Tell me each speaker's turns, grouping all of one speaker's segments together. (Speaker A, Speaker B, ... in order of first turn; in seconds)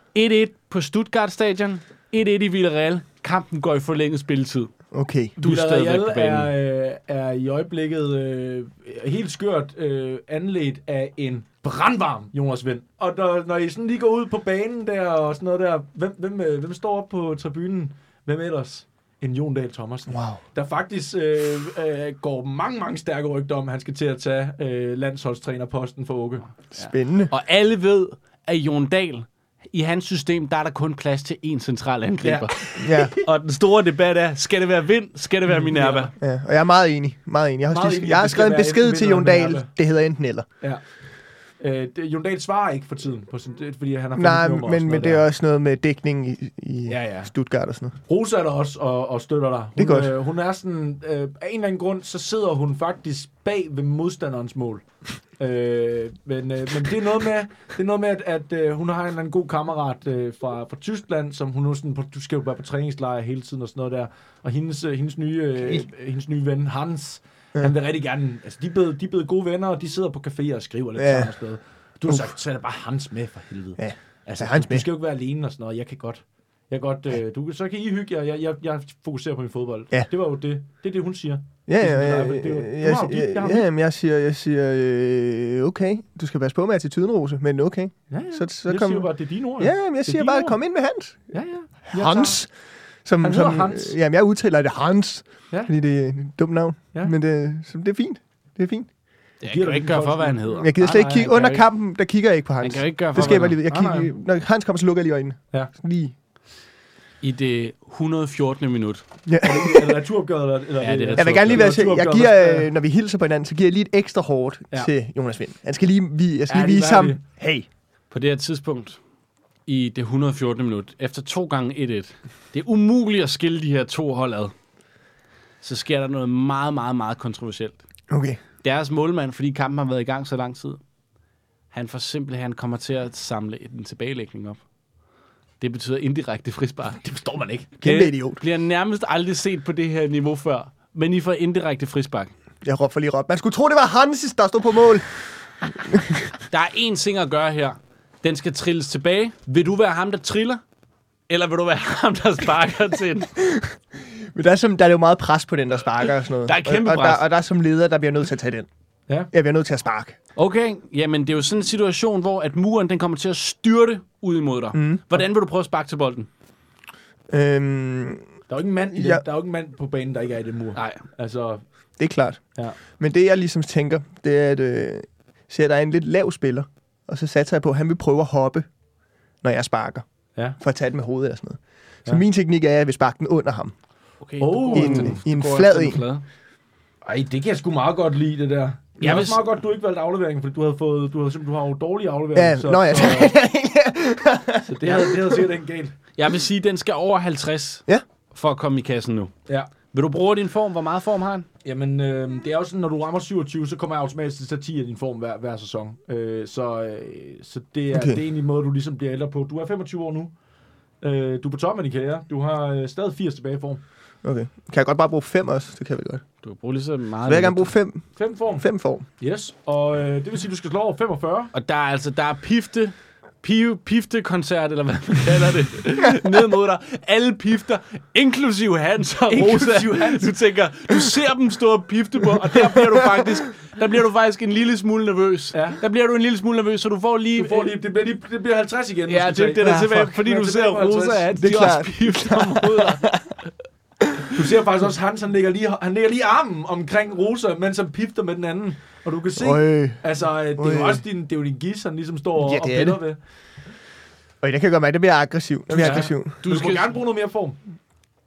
Speaker A: 0.1-4.7, 5.4-6.5, 26.8-36.1, 99.4-101.6, 102.6-103.6, 107.2-109.0, 110.8-111.7, 118.1-119.0, 119.7-124.5, 125.6-127.8, 128.6-130.8, 131.7-134.6, 135.6-137.0, 137.8-142.3, 146.5-150.6, 151.3-153.3, 156.4-157.2, 160.4-166.3, 170.8-171.0, 184.2-186.2, 189.0-189.4, 196.2-199.3, 199.9-201.5, 216.4-217.7, 221.5-237.7, 239.1-243.0, 255.7-256.9
Speaker B: 4.9-5.3, 20.1-20.4, 26.7-27.3, 32.8-33.1, 36.2-40.5, 44.1-48.0, 49.8-50.1, 71.0-71.3, 73.8-74.9, 81.7-91.2, 91.9-92.5, 93.0-98.9, 100.6-106.2, 109.3-110.0, 111.2-117.7, 128.1-128.4, 137.8-138.4, 142.6-145.1, 145.7-146.3, 153.4-158.7, 159.3-160.2, 164.7-165.0, 167.3-168.3, 168.9-169.2, 172.0-178.7, 179.4-180.1, 180.6-183.8, 184.7-186.0, 192.3-195.5, 207.9-208.2, 214.2-216.2, 217.2-218.0, 218.6-219.1, 232.4-233.3, 239.6-239.9, 241.4-243.3, 244.0-244.4, 249.4-250.0, 250.6-251.0, 252.4-253.0, 254.4-256.4
Speaker C: 5.4-26.5, 32.2-33.3, 35.5-36.1, 37.7-39.7, 41.6-45.2, 46.9-47.3, 48.1-54.8, 55.4-83.7, 88.1-90.6, 91.3-92.4, 93.2-94.0, 99.5-101.3, 103.7-104.1, 109.4-112.7, 116.5-117.2, 137.0-137.8, 168.5-171.6, 184.4-185.2, 187.1-193.3, 194.7-195.9, 201.7-210.3, 211.0-213.8, 218.2-218.7, 219.2-221.5, 229.3-230.3, 235.5-235.8, 237.4-241.4, 244.3-253.2, 255.7-257.6